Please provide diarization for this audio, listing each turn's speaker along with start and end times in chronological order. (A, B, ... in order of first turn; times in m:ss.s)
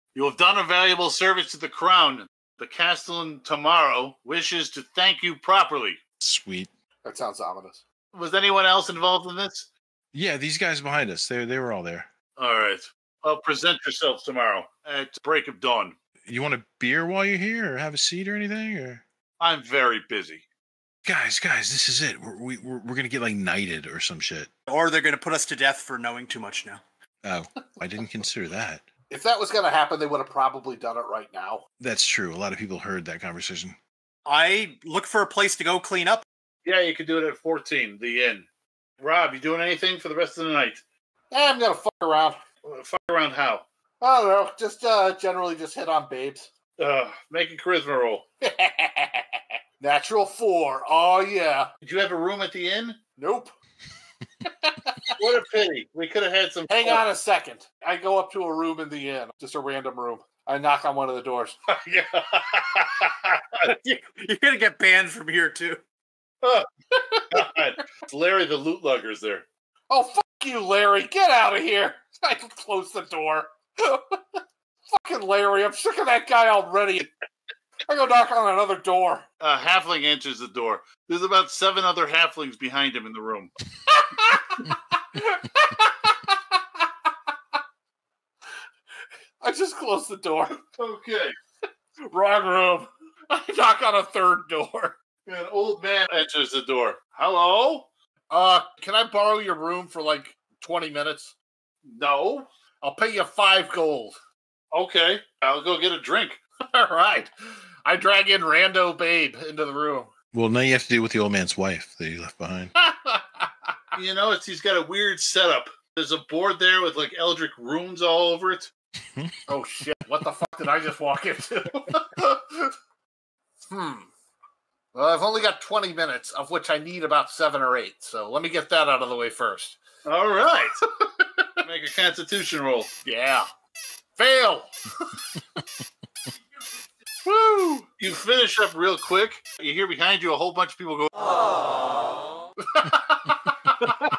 0:00.2-0:06.0 A
0:06.2-0:06.7 B
0:07.0-0:07.8 C
0:08.1-0:09.7 A
0:10.1-0:12.1 B
0:12.4-0:16.0 A
0:16.2-0:19.0 B
0:19.4-0:20.5 A
0:21.0-0:24.5 B
0:24.7-0:26.8 D
0:27.2-0:28.8 B
0:29.1-0:31.6 C
0:31.8-0:33.8 B
0:34.3-0:36.2 D
0:36.6-0:38.5 A
0:39.0-0:40.8 A
0:41.3-0:42.4 C
0:42.6-0:43.6 A
0:44.0-0:46.5 C
0:46.8-0:48.2 A
0:48.4-0:51.7 C
0:51.8-0:53.0 A
0:53.2-0:53.5 C
0:54.6-0:55.0 C
0:55.2-0:57.0 A
0:56.7-1:01.6 C
1:01.7-1:03.7 A
1:03.6-1:05.8 D
1:06.4-1:06.7 A
1:07.3-1:09.4 A
1:09.9-1:14.2 C
1:14.9-1:17.1 C
1:17.9-1:19.2 C
1:19.4-1:23.5 A
1:24.0-1:26.4 C
1:29.4-1:30.6 C
1:30.7-1:31.3 A
1:32.1-1:35.0 C
1:35.3-1:37.9 A
1:38.3-1:41.3 C
1:41.9-1:42.5 A
1:42.8-1:44.2 C
1:44.7-1:46.4 A
1:46.7-1:50.1 C
1:50.3-1:52.8 B
1:52.8-1:53.5 C
1:54.0-1:58.7 A
1:59.5-2:02.7 C
2:03.7-2:04.1 C
2:04.9-2:09.8 C
2:10.0-2:10.8 A
2:11.0-2:11.3 C
2:11.6-2:12.9 A
2:13.0-2:13.5 C
2:14.2-2:14.7 C
2:17.2-2:17.9 C
2:18.0-2:21.5 A
2:22.7-2:23.7 C